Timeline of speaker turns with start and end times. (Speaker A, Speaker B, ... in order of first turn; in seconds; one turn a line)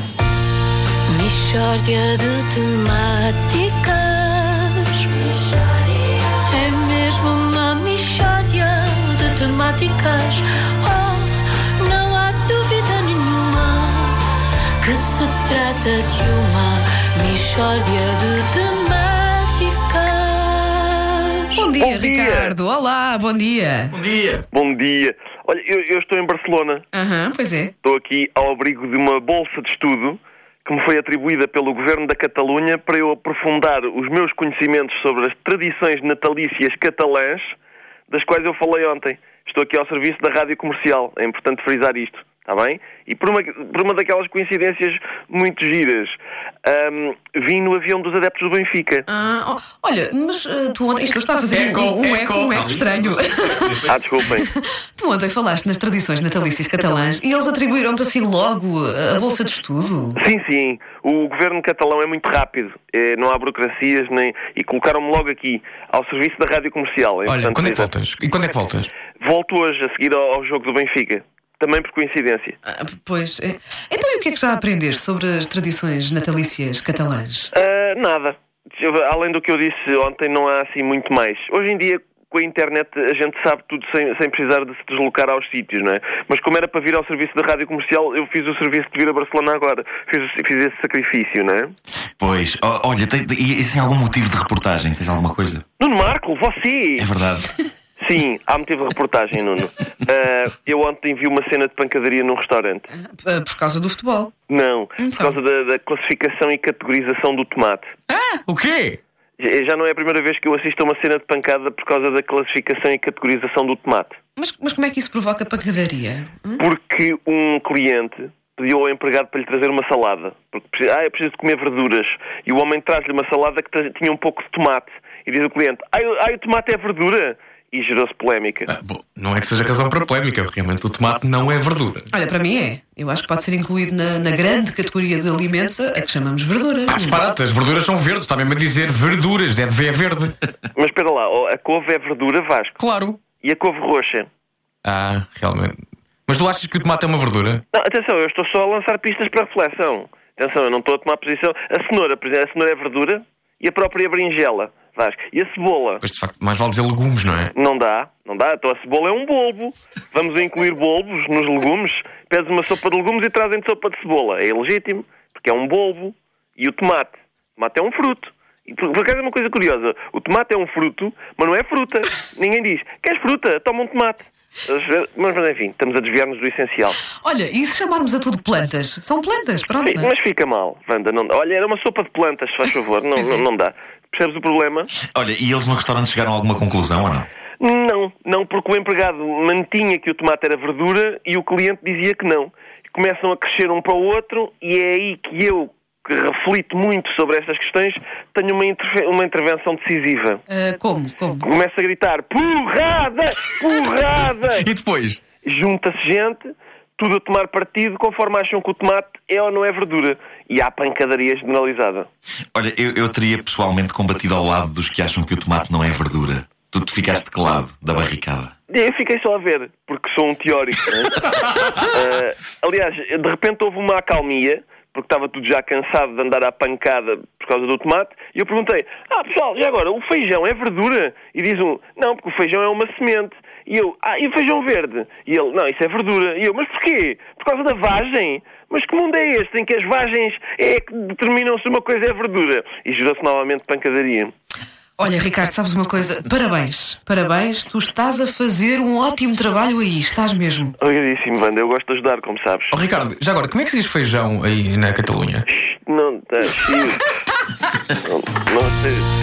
Speaker A: 1.1-5.7
Speaker A: 6.5-14.2
Speaker A: 14.8-21.2
Speaker B: 21.6-24.0
Speaker C: 21.7-22.6
Speaker D: 24.1-24.4
Speaker C: 24.5-26.9
Speaker B: 26.9-27.7
Speaker C: 27.8-37.6
Speaker C: 38.1-49.1
Speaker B: 49.1-53.9
Speaker E: 51.5-52.9
Speaker C: 53.9-54.5
Speaker B: 54.5-60.2
Speaker C: 60.2-67.9
Speaker E: 67.2-68.9
Speaker C: 69.2-72.6
Speaker B: 72.7-77.5
Speaker C: 77.5-91.8
Speaker D: 92.2-95.6
Speaker C: 95.8-97.1
Speaker D: 97.0-97.5
Speaker C: 98.0-102.9
Speaker B: 102.9-104.3
Speaker C: 104.5-107.9
Speaker B: 105.0-105.4
Speaker E: 108.1-109.0
Speaker C: 109.4-114.2
Speaker B: 114.4-116.6
Speaker C: 116.6-128.7
Speaker E: 128.7-132.1
Speaker B: 132.1-137.2
Speaker E: 136.9-140.5
Speaker C: 140.8-142.8
Speaker E: 142.8-143.2
Speaker C: 143.4-144.3
Speaker E: 144.8-147.6
Speaker C: 147.7-156.0
Speaker E: 156.0-157.5
Speaker C: 157.6-177.0
Speaker B: 177.1-180.1
Speaker C: 179.8-184.9
Speaker D: 185.1-187.3
Speaker C: 187.6-200.4
Speaker B: 200.5-201.5
Speaker C: 201.4-204.7
Speaker E: 204.5-205.2
Speaker C: 205.4-212.1
Speaker D: 212.5-218.5
Speaker C: 218.7-244.3
Speaker B: 245.0-250.8
Speaker C: 250.8-252.8
Speaker E: 252.7-255.5
Speaker C: 255.5-257.1
Speaker C: 258.0-259.1